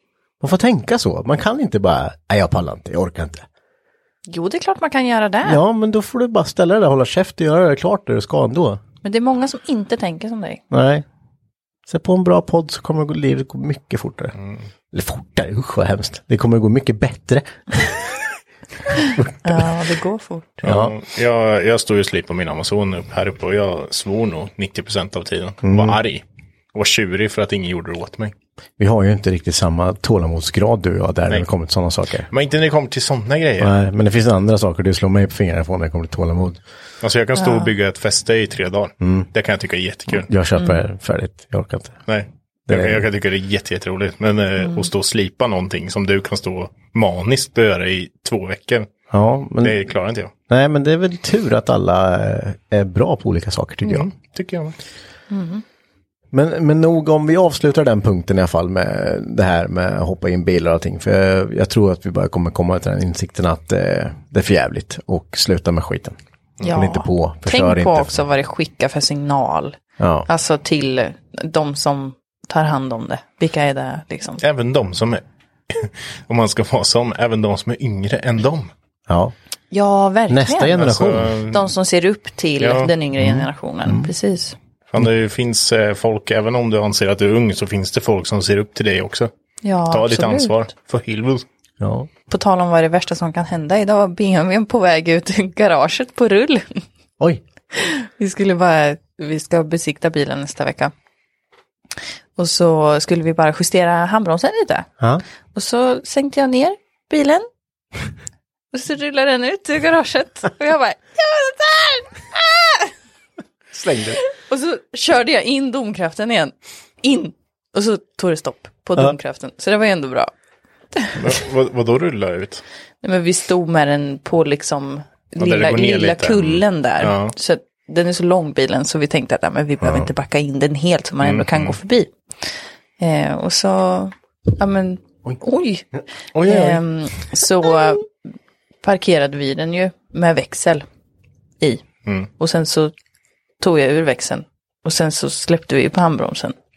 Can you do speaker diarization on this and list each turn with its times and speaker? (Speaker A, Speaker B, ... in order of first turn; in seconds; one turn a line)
Speaker A: 0.4-3.5
Speaker B: 4.3-5.6
Speaker A: 5.5-8.8
Speaker B: 9.0-10.6
Speaker A: 10.7-11.1
Speaker A: 11.9-14.3
Speaker C: 14.4-14.6
Speaker A: 14.9-18.2
Speaker A: 19.1-19.7
Speaker B: 19.4-20.6
Speaker C: 20.6-26.2
Speaker A: 20.6-20.9
Speaker A: 25.6-26.0
Speaker C: 26.7-28.3
Speaker A: 28.8-32.3
Speaker C: 32.3-33.7
Speaker A: 33.6-36.6
Speaker C: 37.0-40.3
Speaker B: 37.4-37.7
Speaker A: 39.0-39.3
Speaker A: 40.1-42.0
Speaker C: 42.1-48.9
Speaker A: 42.7-43.0
Speaker A: 49.1-49.8
Speaker C: 49.6-50.3
Speaker A: 50.5-54.1
Speaker C: 53.9-54.8
Speaker B: 55.3-55.6
Speaker A: 56.3-68.2
Speaker B: 66.6-69.8
Speaker A: 70.0-70.3
Speaker B: 70.3-74.4
Speaker C: 74.4-78.7
Speaker A: 79.1-79.3
Speaker B: 79.7-80.8
Speaker A: 80.3-81.4
Speaker C: 80.8-81.7
Speaker B: 81.5-84.5
Speaker C: 82.6-82.9
Speaker A: 83.2-84.1
Speaker C: 84.9-89.3
Speaker B: 89.6-90.6
Speaker C: 89.9-91.5
Speaker A: 91.8-92.1
Speaker B: 92.3-96.8
Speaker B: 97.7-100.9
Speaker B: 102.4-104.9
Speaker B: 105.5-107.5
Speaker B: 108.7-112.9
Speaker A: 113.7-114.2
Speaker B: 114.3-120.3
Speaker C: 121.2-122.6
Speaker B: 123.0-132.1
Speaker C: 125.4-127.3
Speaker A: 129.8-130.1
Speaker C: 131.2-131.8
Speaker B: 133.0-135.9
Speaker C: 136.3-136.8
Speaker B: 136.4-138.1
Speaker B: 138.8-140.8
Speaker B: 142.4-142.9
Speaker B: 143.6-146.6